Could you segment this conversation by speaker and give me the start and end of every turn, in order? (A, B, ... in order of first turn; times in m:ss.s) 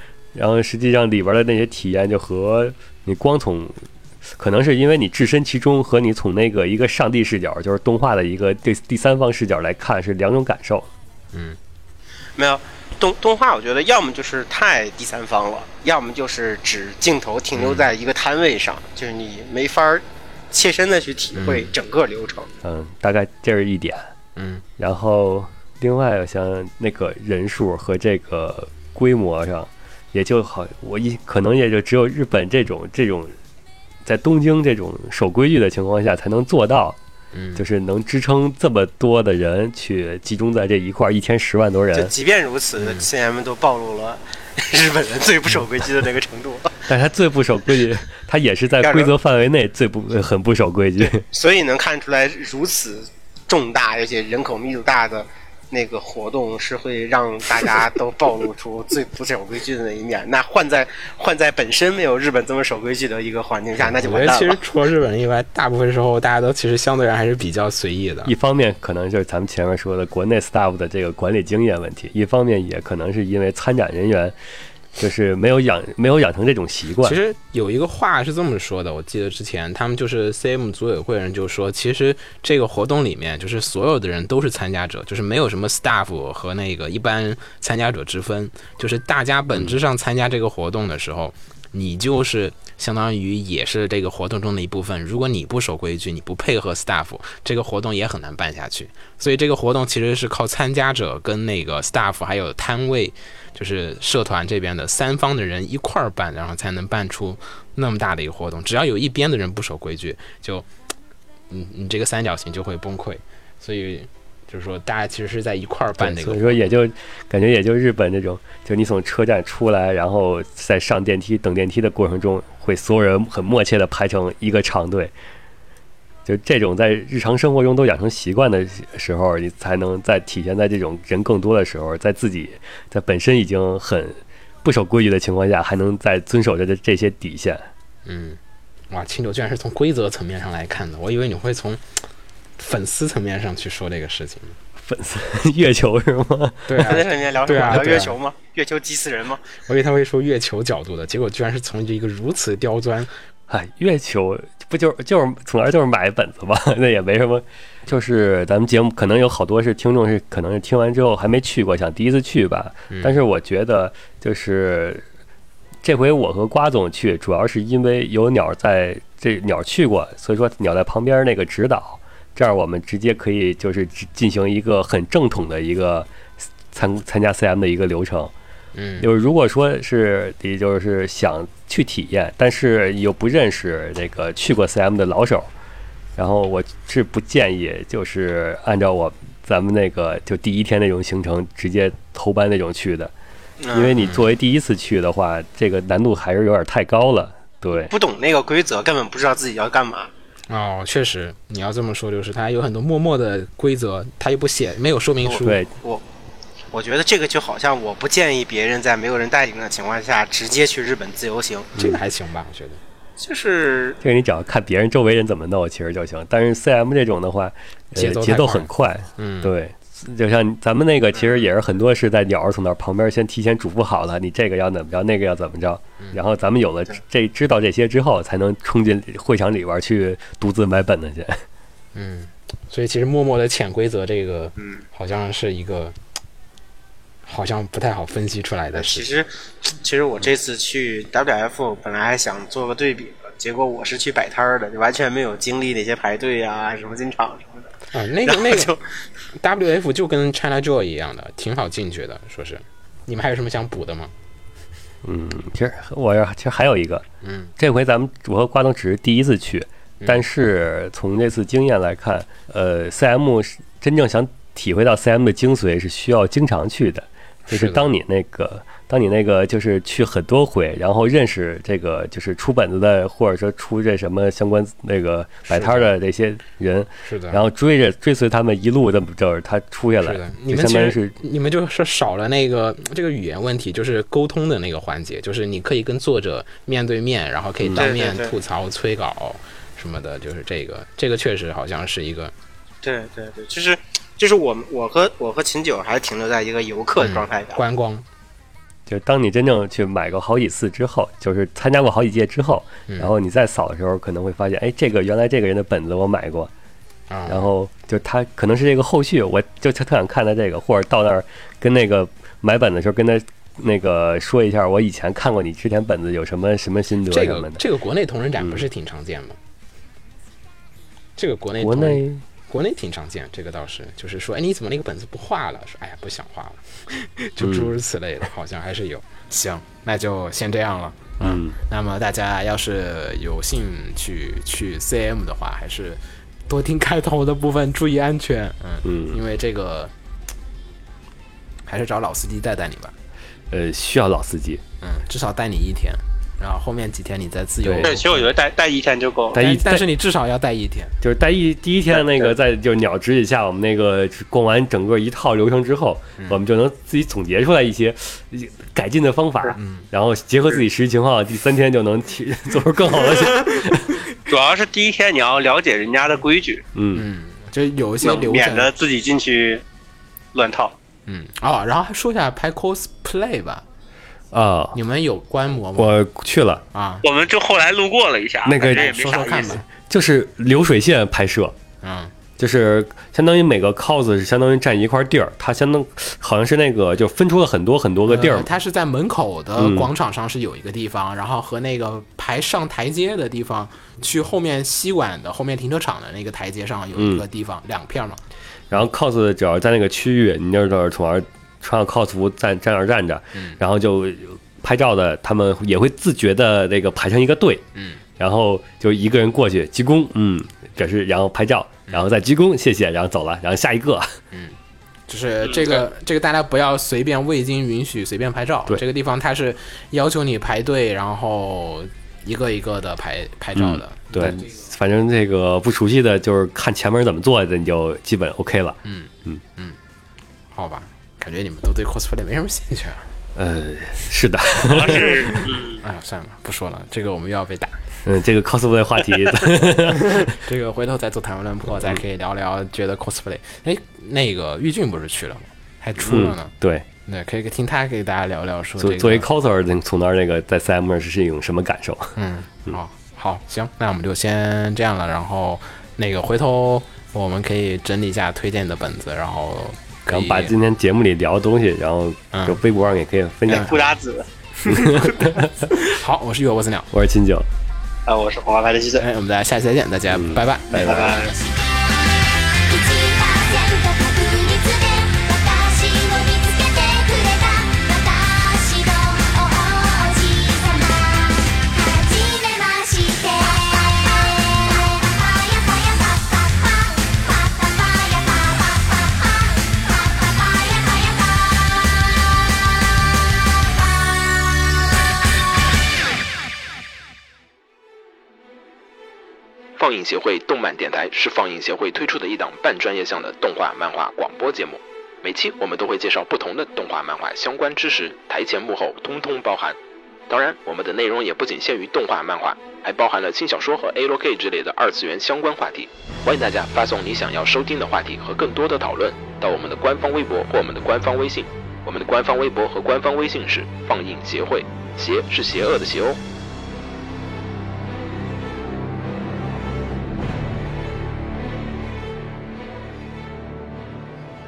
0:00.3-0:03.8 A
0:04.4-0:10.9 A
0:11.3-0:11.6 B
0:12.4-0:22.5 C
0:17.6-0:17.9 B
0:21.3-0:21.7 B
0:22.6-0:24.1 A
0:24.4-0:24.6 B
0:24.8-0:33.4 A
0:34.0-0:37.0 A
0:37.3-0:37.6 B
0:37.6-0:42.1 A
0:41.9-0:46.9 C
0:42.8-0:43.1 B
0:46.9-0:51.2 A
0:48.8-0:49.1 C
0:51.2-1:04.6 C
1:03.8-1:08.3 B
1:08.2-1:14.4 A
1:15.0-1:17.2 A
1:17.0-1:50.7 B
1:29.5-1:29.8 A
1:51.5-1:56.7 B
1:56.0-2:05.1 A
2:06.3-2:17.7 A
2:18.0-2:18.4 B
2:18.9-2:24.6 B
2:24.8-2:27.0 A
2:26.7-2:28.2 B
2:26.8-2:29.4 C
2:29.7-2:33.1 B
2:33.5-2:45.0 A
2:42.9-2:43.2 B
2:45.8-2:56.1 A
2:56.7-2:58.3 A
2:58.8-2:59.1 B
2:59.0-3:05.5 A
3:06.2-3:13.1 A
3:13.6-3:14.0 C
3:13.7-3:17.9 A
3:14.0-3:14.2 B
3:17.8-3:20.1 C
3:20.5-3:25.6 B
3:25.4-3:25.7 A
3:26.7-3:31.7 C
3:31.8-3:32.8 B
3:33.2-3:34.0 C
3:34.0-3:51.4 A
3:38.0-3:39.5 B
3:52.0-3:56.0 B
3:57.3-3:59.1 B
3:58.7-4:07.7 C
4:07.9-4:08.7 B
4:08.2-4:08.8 C
4:09.4-4:14.1 B
4:15.0-4:17.0 A
4:17.2-4:17.5 B
4:17.6-4:41.2 A
4:27.5-4:27.9 B
4:35.5-4:35.9 B
4:37.0-4:37.4 B
4:40.0-4:52.3 B
4:47.8-4:48.3 C
4:52.8-4:57.6 C
4:57.0-4:58.0 B
4:58.9-5:06.5 A
5:07.1-5:07.5 B
5:07.3-5:17.6 A
5:17.1-5:19.4 B
5:18.4-5:18.6 A
5:21.2-5:39.9 B
5:21.6-5:22.2 A
5:27.4-5:27.7 A
5:31.2-5:31.6 A
5:38.8-5:39.2 A
5:41.7-5:43.0 B
5:43.5-5:44.6 A
5:44.8-5:48.3 B
5:47.6-5:47.9 A
5:47.8-5:49.4 C
5:49.3-5:49.9 A
5:49.4-5:51.0 B
5:51.0-6:03.9 A
5:52.0-5:52.3 C
5:59.6-5:59.9 B
6:04.3-6:06.6 C
6:06.8-6:07.0 A
6:06.9-6:08.7 B
6:08.0-6:09.6 C
6:10.4-6:10.8 C
6:11.1-6:13.6 B
6:14.3-6:14.8 A
6:14.7-6:16.0 B
6:15.8-6:16.6 A
6:16.7-6:17.0 B
6:17.0-6:19.6 C
6:18.4-6:18.9 A
6:18.6-6:19.6 B
6:19.8-6:21.6 A
6:21.8-6:22.1 B
6:22.4-6:28.5 A
6:28.1-6:38.2 B
6:29.6-6:29.9 A
6:37.0-6:37.2 A
6:38.7-6:47.6 A
6:43.3-6:43.6 B
6:47.8-6:48.0 B
6:48.2-6:54.2 A
6:54.3-7:04.6 B
6:55.5-6:55.8 C
7:03.6-7:09.4 A
7:08.8-7:09.8 B
7:10.5-7:13.1 B
7:13.4-7:15.2 A
7:14.6-7:15.8 C
7:14.9-7:17.8 B
7:18.0-7:20.3 A
7:20.0-7:26.5 B
7:26.0-7:26.9 A
7:27.1-7:29.3 B
7:28.8-7:32.2 A
7:32.2-7:40.5 B
7:40.1-7:43.7 A
7:42.3-7:42.6 B
7:43.5-7:44.3 C
7:44.6-7:46.9 B
7:44.7-7:45.7 A
7:46.9-7:47.5 A
7:48.1-7:49.0 C
7:49.0-7:51.0 B
7:50.1-7:51.2 A
7:50.7-7:51.4 C
7:52.7-8:01.2 D
8:01.8-8:08.8 D
8:19.8-8:29.8 E
8:30.3-8:46.2 E